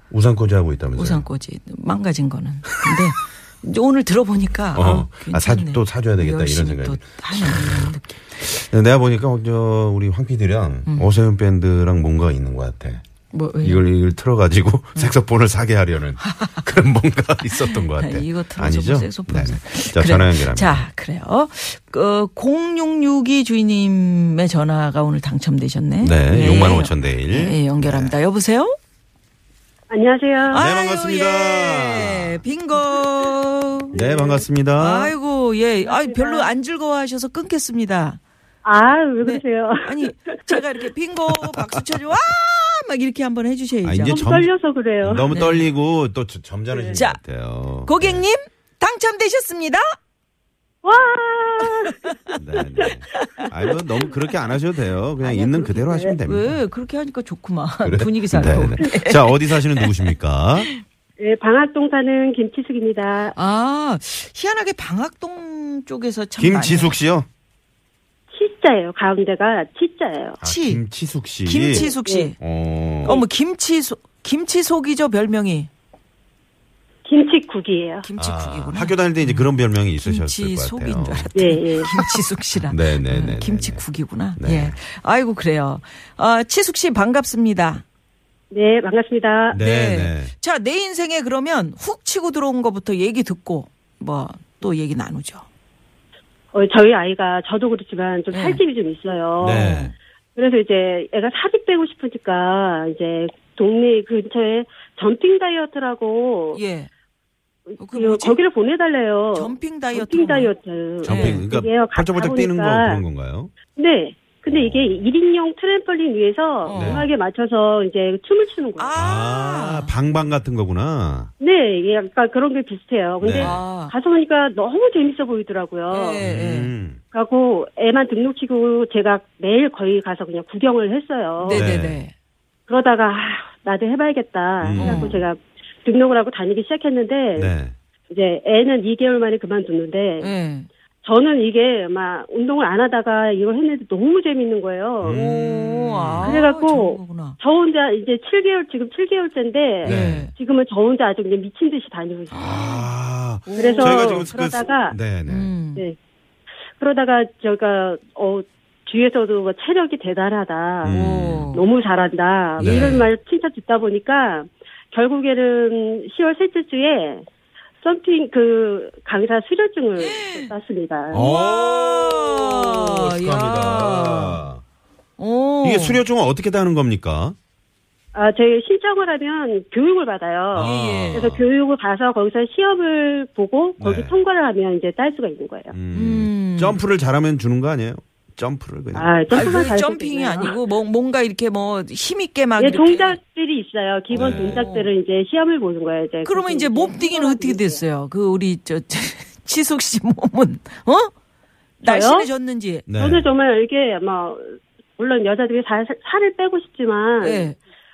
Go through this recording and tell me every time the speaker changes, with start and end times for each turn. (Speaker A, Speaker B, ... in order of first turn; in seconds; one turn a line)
Speaker A: 0.1-1.2
Speaker B: 0.9-8.4
Speaker A: 4.7-13.0
Speaker B: 13.3-13.8
Speaker A: 13.6-20.8
Speaker B: 16.3-16.6
Speaker B: 17.6-28.7
Speaker A: 26.0-28.1
Speaker C: 29.9-30.6
Speaker B: 30.5-33.9
Speaker A: 30.5-32.4
Speaker C: 33.9-34.5
Speaker A: 33.9-35.1
Speaker B: 34.8-38.2
Speaker C: 35.8-36.5
Speaker C: 38.6-40.6
Speaker B: 39.2-44.2
Speaker A: 43.8-48.2
Speaker C: 44.0-45.3
Speaker B: 45.3-45.7
Speaker C: 46.7-47.0
Speaker B: 46.9-47.2
Speaker B: 47.8-49.8
Speaker C: 50.8-52.8
Speaker B: 52.0-53.5
Speaker A: 52.4-56.6
Speaker C: 55.2-56.1
Speaker B: 56.2-60.8
Speaker A: 57.8-60.7
Speaker C: 61.2-63.4
Speaker B: 63.3-67.0
Speaker A: 66.4-67.3
Speaker C: 68.3-70.4
Speaker B: 70.4-70.8
Speaker A: 70.4-73.2
Speaker B: 71.4-72.3
Speaker C: 71.7-72.3
Speaker B: 73.0-75.7
Speaker C: 77.0-78.1
Speaker B: 78.0-87.8
Speaker A: 78.2-81.3
Speaker C: 81.3-81.9
Speaker A: 81.9-83.8
Speaker A: 84.4-84.8
Speaker C: 88.5-89.6
Speaker A: 89.5-90.3
Speaker B: 89.5-95.4
Speaker C: 96.5-99.8
Speaker B: 98.3-98.6
Speaker A: 99.4-99.9
Speaker B: 99.4-99.9
Speaker C: 100.3-106.6
Speaker B: 106.5-106.9
Speaker C: 107.7-113.0
Speaker B: 107.8-108.4
Speaker B: 109.3-111.5
Speaker A: 111.0-113.5
Speaker C: 113.8-118.9
Speaker A: 114.5-115.0
Speaker B: 116.6-117.1
Speaker A: 116.7-117.1
Speaker B: 118.8-119.9
Speaker A: 118.9-121.3
Speaker C: 121.4-126.2
Speaker A: 123.2-123.6
Speaker B: 123.4-123.9
Speaker B: 125.9-126.7
Speaker A: 126.2-127.0
Speaker C: 127.1-131.6
Speaker B: 131.4-132.1
Speaker A: 131.5-132.0
Speaker C: 132.7-137.5
Speaker A: 134.6-135.2
Speaker B: 134.8-135.2
Speaker A: 137.3-137.7
Speaker C: 138.1-140.3
Speaker B: 140.2-140.7
Speaker C: 141.0-152.4
Speaker A: 145.0-146.3
Speaker B: 145.1-147.4
Speaker B: 149.8-150.3
Speaker A: 149.8-150.3
Speaker B: 152.3-152.9
Speaker A: 152.3-155.5
Speaker B: 153.4-154.3
Speaker C: 153.6-155.0
Speaker B: 155.2-155.8
Speaker C: 156.8-167.2
Speaker A: 160.8-161.5
Speaker B: 160.9-161.7
Speaker A: 162.6-163.1
Speaker B: 162.6-162.9
Speaker C: 167.8-171.2
Speaker B: 170.0-170.5
Speaker A: 171.1-174.6
Speaker B: 171.1-174.4
Speaker B: 175.2-176.0
Speaker A: 175.6-177.3
Speaker C: 178.1-185.8
Speaker A: 180.5-181.4
Speaker B: 180.6-181.3
Speaker A: 183.8-184.2
Speaker A: 185.7-189.6
Speaker B: 185.9-186.8
Speaker C: 188.9-190.6
Speaker B: 189.3-193.2
Speaker C: 192.6-197.8
Speaker B: 194.1-194.9
Speaker A: 194.1-194.7
Speaker B: 196.2-201.1
Speaker B: 201.8-202.9
Speaker C: 201.8-202.3
Speaker A: 202.9-203.3
Speaker C: 203.0-207.5
Speaker B: 207.2-207.6